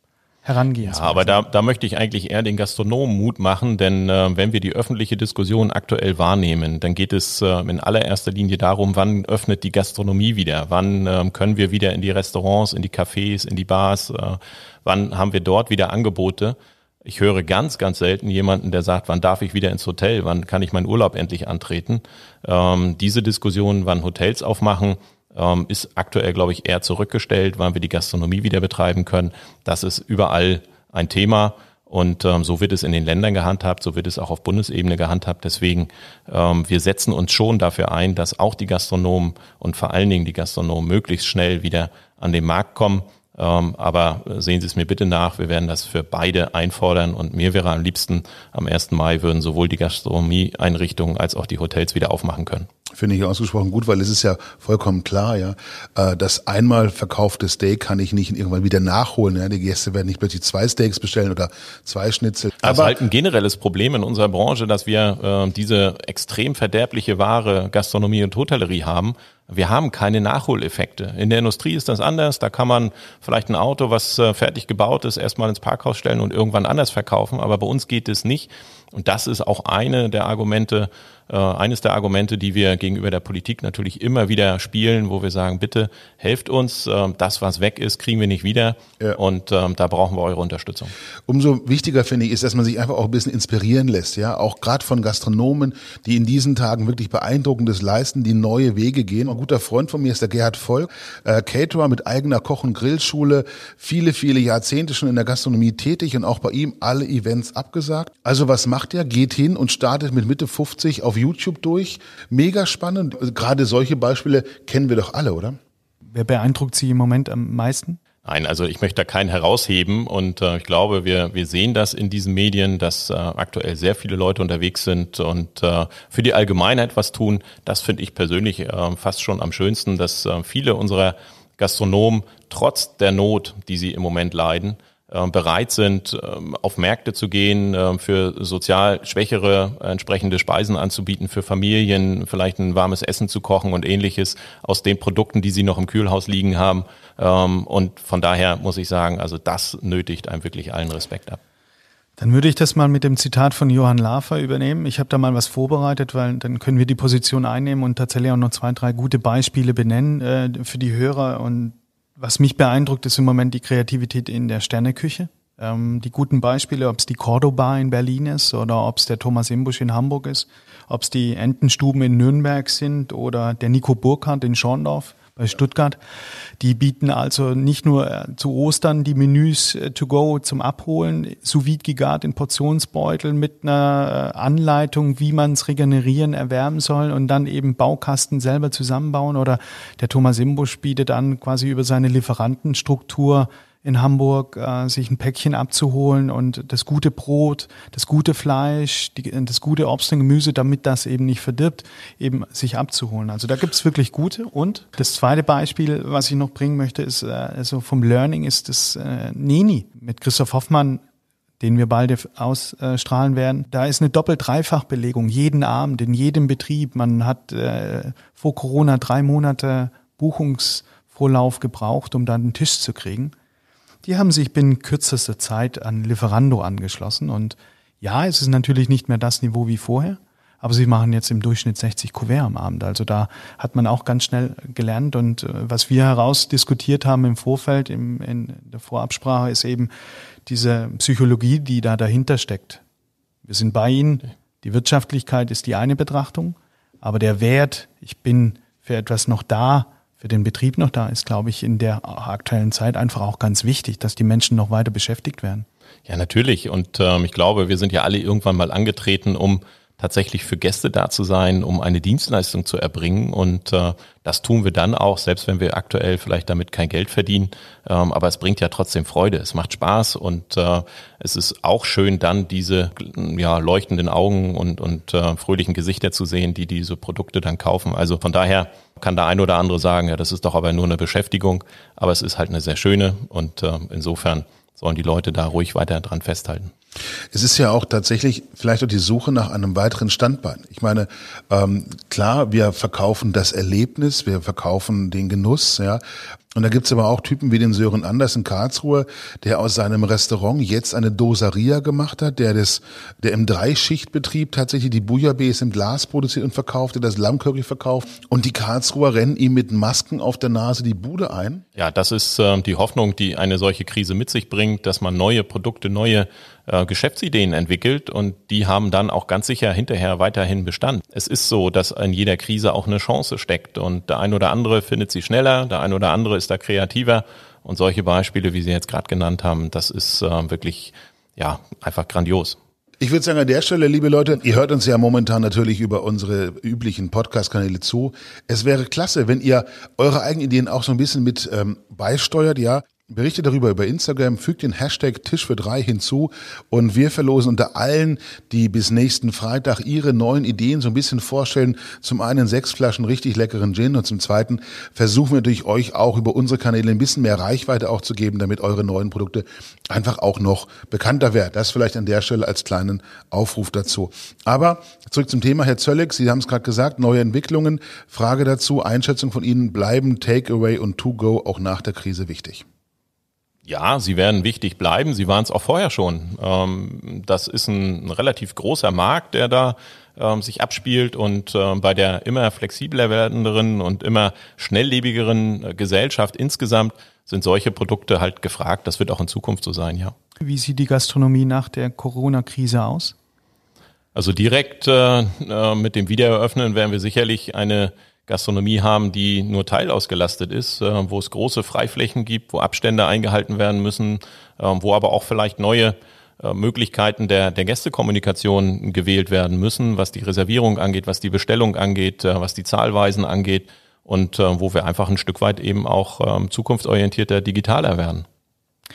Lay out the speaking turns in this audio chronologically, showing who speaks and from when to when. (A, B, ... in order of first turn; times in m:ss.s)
0:00.4-0:01.4 A
0:00.8-0:52.7 B
0:52.9-1:03.0 C
1:02.6-1:30.9 B
1:31.3-1:55.6 C
1:56.1-1:58.0 A
1:58.2-2:31.4 B
2:32.2-2:56.0 A
2:56.6-3:31.0 A
3:31.6-3:43.3 A
3:44.0-3:59.9 A
4:00.5-4:02.8 A
4:03.4-4:15.7 A
4:16.1-4:46.7 B
4:47.3-4:56.0 C
4:56.5-5:11.6 C
5:11.8-5:32.6 B
5:33.0-6:12.6 C
6:13.7-6:30.2 B
6:30.4-6:33.2 A
6:34.2-6:58.3 B